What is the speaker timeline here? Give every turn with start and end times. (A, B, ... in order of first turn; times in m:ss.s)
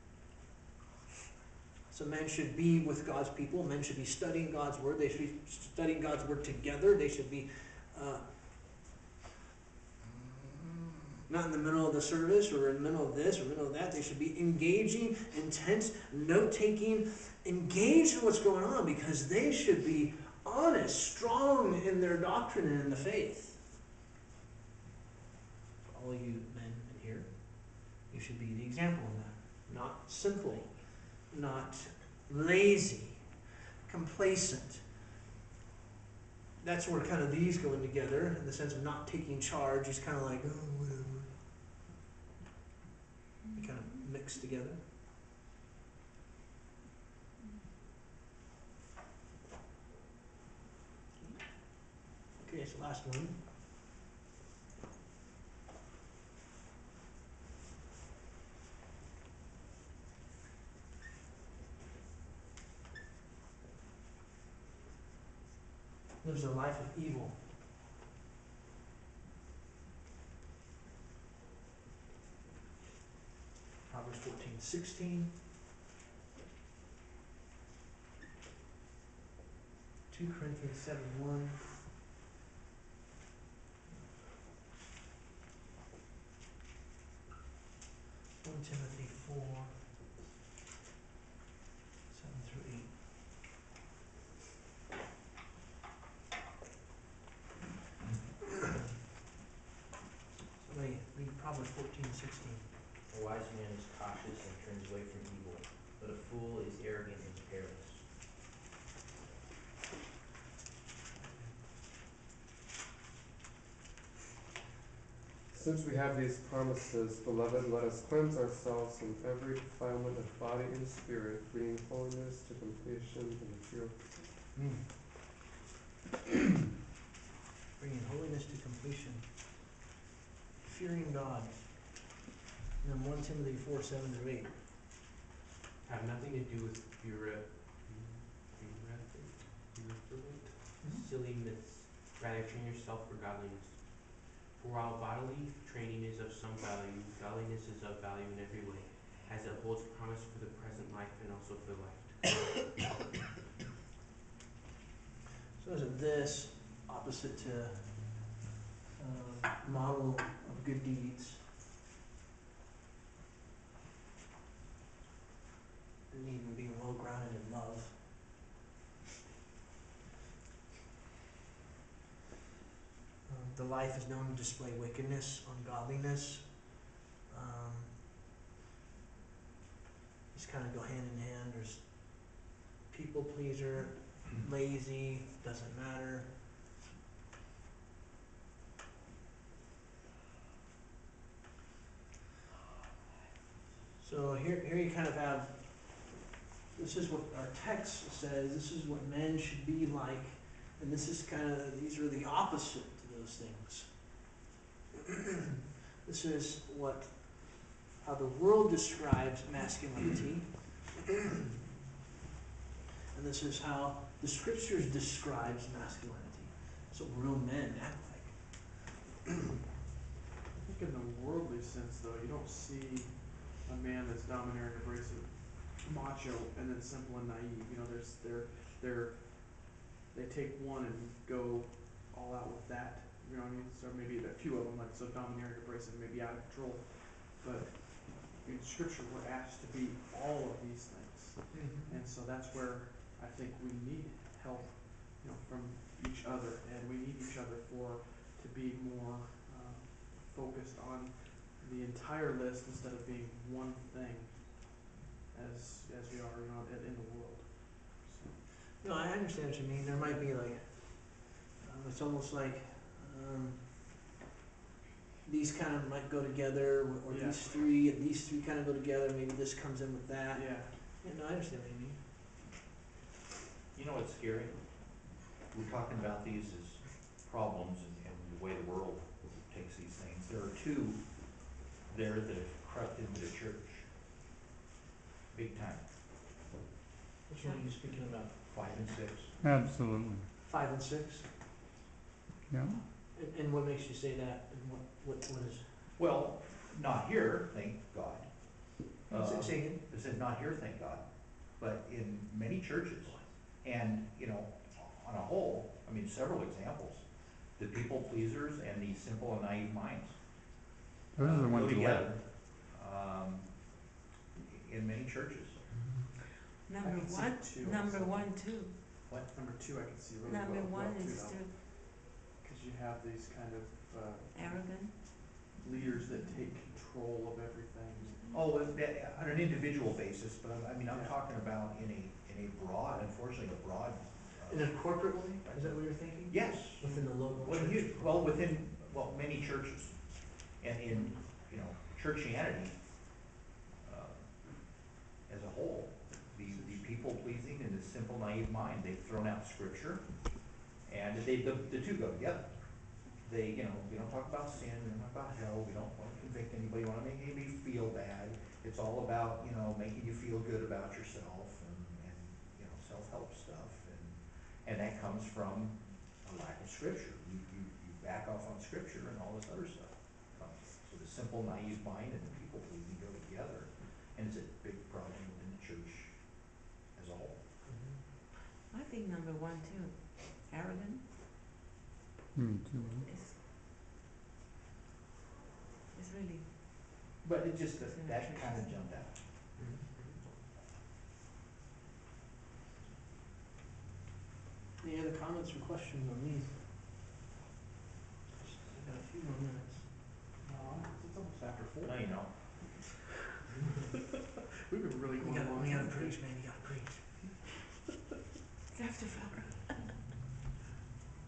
0:01.9-0:08.2 A
0:10.0-0:23.6 A
0:25.8-0:33.3 A
0:33.9-0:34.8 A
0:36.6-0:41.4 A
0:43.4-0:44.0 B
0:43.6-0:44.8 A
0:51.2-0:51.4 B
0:52.4-0:53.4 A
1:06.2-1:07.4 A
1:13.8-1:15.4 A
1:20.1-1:21.7 A
1:28.4-1:30.0 A
1:32.1-1:32.9 A
1:40.6-1:42.6 A
1:43.1-1:48.0 C
1:51.2-1:51.5 A
1:55.5-2:04.1 D
2:04.5-2:04.9 A
2:07.8-2:09.3 A
2:10.6-2:11.9 A
2:12.8-2:14.5 A
2:15.8-2:32.6 C
2:35.6-2:38.2 A
2:39.0-2:41.4 A
2:46.1-2:48.0 A
2:53.2-2:56.7 A
2:57.3-2:58.0 A
3:00.3-3:02.3 A
3:02.9-3:06.3 A
3:14.0-3:16.0 A
3:16.7-3:24.2 A
3:26.0-3:31.0 A
3:33.1-3:38.7 A
3:40.5-4:18.4 E
4:01.5-4:02.0 A
4:18.8-4:23.6 A
4:19.9-4:20.3 E
4:25.2-4:32.0 A
4:27.1-4:27.4 E
4:30.3-4:30.7 E
4:33.7-4:43.9 F
4:45.3-4:45.8 F
4:47.3-4:48.3 A
4:48.5-4:49.3 F
4:49.4-4:50.3 G
4:50.4-4:51.3 A
4:52.5-4:52.8 G
4:53.1-4:55.6 A
4:56.0-5:07.0 F
4:59.1-4:59.8 A
5:07.6-5:10.2 F
5:11.2-5:12.2 G
5:11.2-5:15.7 F
5:16.6-5:19.0 B
5:16.8-5:28.3 E
5:20.2-5:21.5 B
5:24.3-5:25.4 B
5:28.3-5:43.2 F
5:34.5-5:38.2 A
5:36.8-5:37.1 E
5:40.9-5:41.2 E
5:43.8-6:17.4 F
6:17.6-6:18.0 A
6:18.7-6:21.1 B
6:22.3-6:23.1 G
6:23.0-6:23.4 B
6:25.9-6:26.5 B
6:27.2-6:29.2 F
6:27.8-6:29.0 B
6:29.6-6:29.8 A
6:34.8-6:36.6 A
6:38.4-6:39.8 A
6:40.4-6:42.0 E
6:41.8-6:42.3 F
6:44.7-6:46.5 E
6:45.2-6:47.0 A
6:48.7-6:50.0 B